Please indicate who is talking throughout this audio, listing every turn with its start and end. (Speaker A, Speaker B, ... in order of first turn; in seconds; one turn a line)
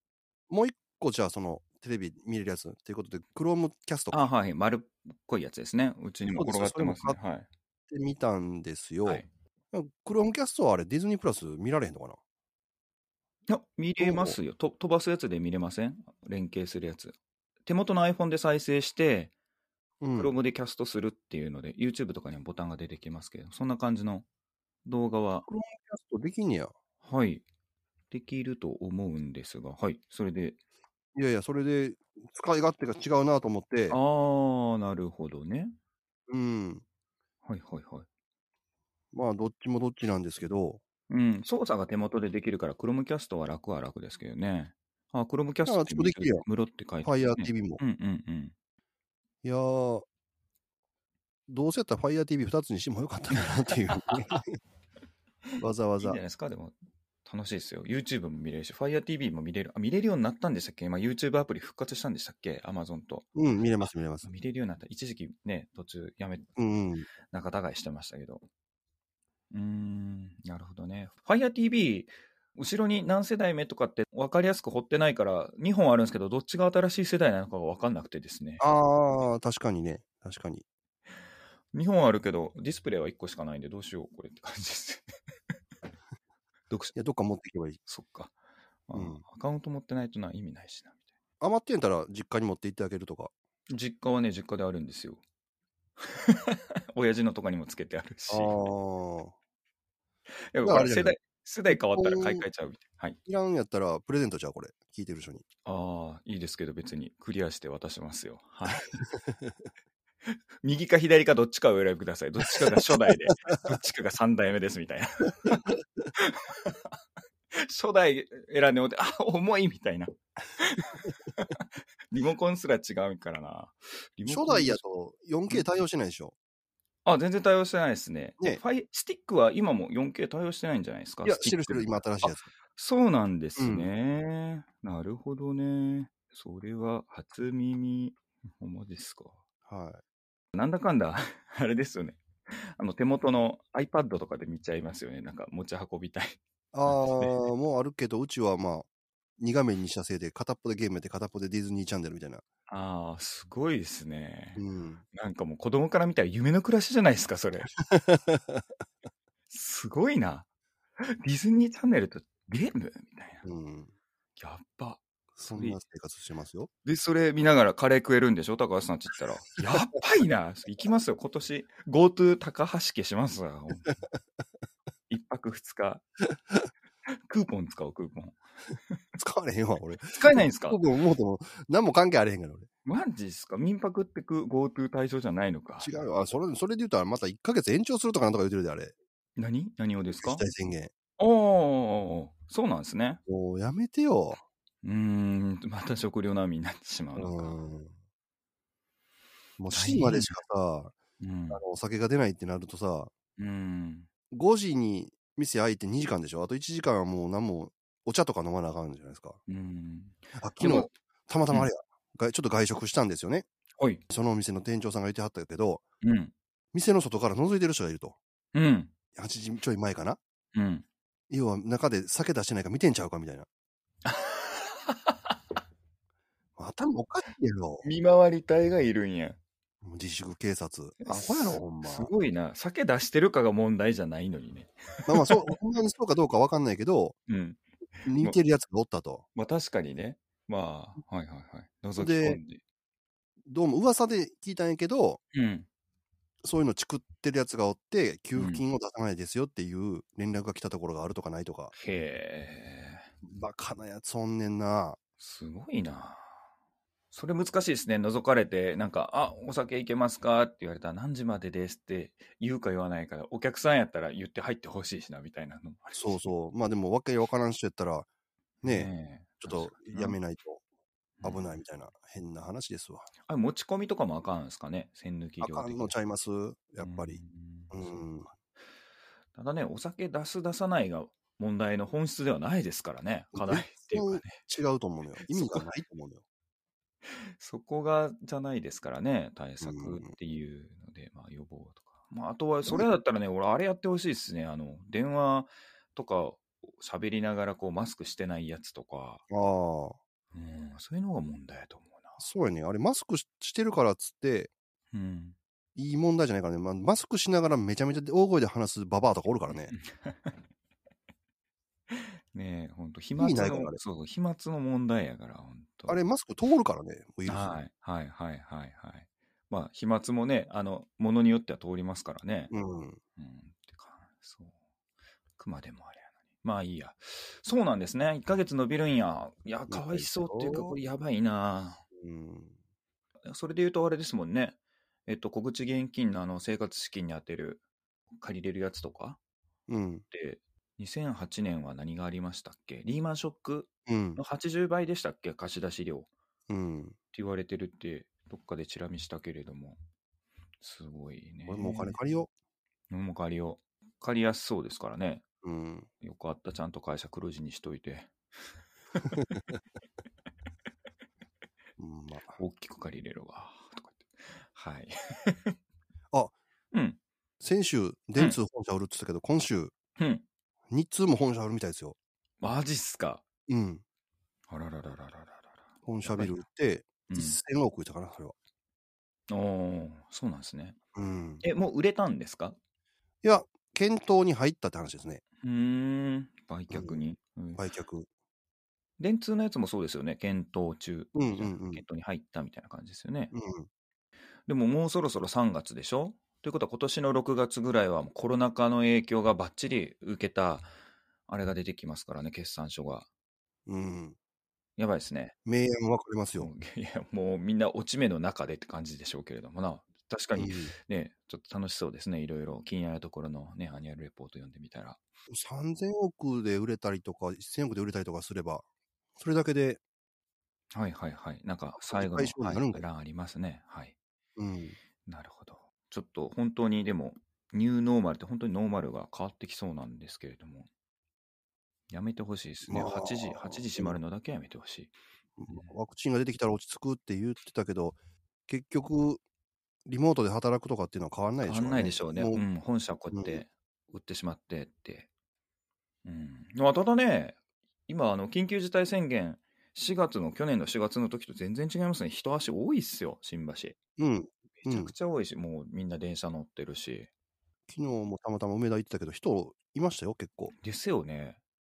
Speaker A: 0.5-4.2
Speaker B: 4.1-7.5
Speaker A: 6.3-7.2
Speaker A: 7.9-12.2
Speaker B: 13.5-17.1
Speaker A: 14.0-14.4
Speaker B: 17.7-19.3
Speaker A: 20.0-20.3
Speaker B: 20.2-24.2
Speaker B: 24.9-25.5
Speaker A: 25.5-26.7
Speaker B: 27.0-27.4
Speaker B: 28.1-30.6
Speaker A: 31.1-34.0
Speaker B: 33.9-35.8
Speaker A: 36.3-36.8
Speaker B: 37.5-38.1
Speaker A: 39.1-40.8
Speaker B: 41.1-48.5
Speaker A: 45.7-46.5
Speaker A: 47.0-47.8
Speaker A: 49.4-50.0
Speaker A: 51.5-54.6
Speaker A: 55.6-56.2
Speaker B: 56.0-63.3
Speaker A: 63.4-64.3
Speaker B: 64.2-66.5
Speaker A: 66.6-67.1
Speaker B: 67.3-68.5
Speaker B: 69.5-78.7
Speaker A: 78.6-80.7
Speaker B: 81.7-85.1
Speaker B: 86.7-87.0
Speaker A: 86.9-87.8
Speaker B: 87.9-88.3
Speaker B: 88.9-91.0
Speaker A: 88.9-89.2
Speaker A: 91.4-93.3
Speaker B: 93.7-95.2
Speaker B: 96.0-98.7
Speaker A: 98.3-99.3
Speaker B: 100.5-103.2
Speaker A: 100.6-101.2
Speaker A: 101.7-102.5
Speaker A: 103.3-105.4
Speaker B: 105.7-108.9
Speaker A: 109.2-109.5
Speaker B: 110.6-116.9
Speaker B: 117.5-124.8
Speaker A: 124.3-126.3
Speaker B: 127.0-139.4
Speaker A: 131.2-132.5
Speaker A: 133.6-133.9
Speaker A: 139.7-140.0
Speaker B: 140.5-147.5
Speaker A: 146.7-148.9
Speaker A: 149.4-152.4
Speaker B: 152.7-157.7
Speaker A: 154.6-155.0
Speaker A: 157.8-158.6
Speaker B: 159.5-160.5
Speaker B: 161.0-163.5
Speaker A: 163.4-163.9
Speaker B: 164.4-165.8
Speaker A: 165.4-166.7
Speaker B: 166.8-174.0
Speaker B: 175.1-176.0
Speaker B: 177.3-179.0
Speaker A: 179.2-182.7
Speaker B: 180.0-180.8
Speaker B: 182.8-186.0
Speaker A: 185.8-188.9
Speaker B: 189.4-190.4
Speaker A: 190.2-190.9
Speaker B: 191.2-193.2
Speaker A: 193.3-194.4
Speaker B: 194.8-197.6
Speaker A: 197.2-197.9
Speaker A: 199.6-200.9
Speaker B: 199.7-200.4
Speaker B: 201.2-201.6
Speaker A: 201.5-203.1
Speaker B: 203.4-204.1
Speaker A: 204.3-209.4
Speaker B: 209.5-210.9
Speaker A: 210.4-213.5
Speaker A: 214.1-215.8
Speaker B: 216.0-216.3
Speaker A: 216.7-218.2
Speaker B: 218.5-218.9
Speaker A: 219.2-220.2
Speaker B: 220.5-220.8
Speaker A: 221.3-223.5
Speaker B: 224.1-225.3
Speaker A: 226.6-227.8
Speaker B: 227.8-229.4
Speaker A: 229.8-232.1
Speaker B: 231.0-235.5
Speaker A: 235.1-237.2
Speaker B: 237.3-238.4
Speaker A: 238.1-239.2
Speaker B: 239.3-242.6
Speaker A: 242.0-242.4
Speaker A: 243.4-245.2
Speaker B: 245.3-245.7
Speaker A: 246.4-251.7
Speaker B: 248.4-248.6
Speaker B: 251.7-253.1
Speaker A: 253.2-255.0
Speaker B: 255.2-256.3
Speaker B: 257.1-266.3
Speaker A: 265.9-268.1
Speaker A: 268.6-270.6
Speaker B: 268.6-270.2
Speaker B: 271.2-271.6
Speaker A: 271.2-273.1
Speaker B: 273.3-276.0
Speaker A: 275.4-278.3
Speaker B: 276.8-278.0
Speaker B: 279.4-284.4
Speaker A: 283.3-286.2
Speaker B: 285.2-285.6
Speaker B: 287.1-299.2
Speaker A: 289.6-290.1
Speaker A: 299.3-300.0
Speaker B: 300.3-302.2
Speaker A: 302.2-304.5
Speaker B: 304.9-305.4
Speaker A: 305.8-309.7
Speaker B: 309.5-310.4
Speaker B: 311.9-316.0
Speaker A: 313.2-313.8
Speaker A: 315.9-317.6
Speaker B: 317.3-322.5
Speaker A: 322.5-323.0
Speaker B: 323.2-324.5
Speaker B: 325.4-331.8
Speaker A: 329.7-330.8
Speaker A: 332.0-332.6
Speaker B: 333.3-337.6
Speaker B: 338.2-339.2
Speaker A: 339.7-340.1
Speaker B: 340.1-346.1
Speaker A: 343.9-344.2
Speaker A: 346.5-347.0
Speaker B: 347.1-349.8
Speaker B: 350.6-352.0
Speaker A: 351.5-352.3
Speaker B: 352.9-355.2
Speaker A: 355.4-355.9
Speaker B: 356.0-358.2
Speaker B: 358.9-359.4
Speaker A: 359.1-359.6
Speaker A: 361.8-362.4
Speaker B: 362.4-365.6
Speaker B: 366.7-367.0
Speaker A: 367.4-369.7
Speaker B: 370.0-370.2
Speaker A: 370.7-372.0
Speaker B: 372.4-373.2
Speaker A: 373.5-373.8
Speaker B: 374.5-376.4
Speaker A: 375.9-378.3
Speaker B: 377.1-377.4
Speaker B: 379.3-380.8
Speaker A: 380.9-381.4
Speaker B: 381.4-382.6
Speaker A: 383.2-385.2
Speaker B: 385.4-387.6
Speaker A: 386.7-387.0
Speaker A: 387.6-388.1
Speaker B: 389.0-393.3
Speaker A: 391.1-391.8
Speaker A: 393.3-393.7
Speaker B: 394.5-400.7
Speaker B: 401.3-403.1
Speaker A: 403.7-404.2
Speaker B: 404.8-405.4
Speaker A: 405.5-406.5
Speaker B: 406.4-415.0
Speaker A: 410.4-410.7
Speaker A: 415.3-418.6
Speaker A: 419.2-419.8
Speaker B: 420.7-423.9
Speaker A: 421.8-422.9
Speaker A: 424.4-424.8
Speaker B: 425.1-430.7
Speaker B: 431.9-434.9
Speaker A: 432.7-434.0
Speaker A: 435.4-438.0
Speaker A: 438.5-439.2
Speaker A: 439.9-442.4
Speaker B: 441.4-445.1
Speaker A: 443.1-443.4
Speaker B: 446.0-453.8
Speaker A: 454.0-454.9
Speaker B: 454.6-457.1
Speaker A: 457.7-460.5
Speaker B: 460.6-461.4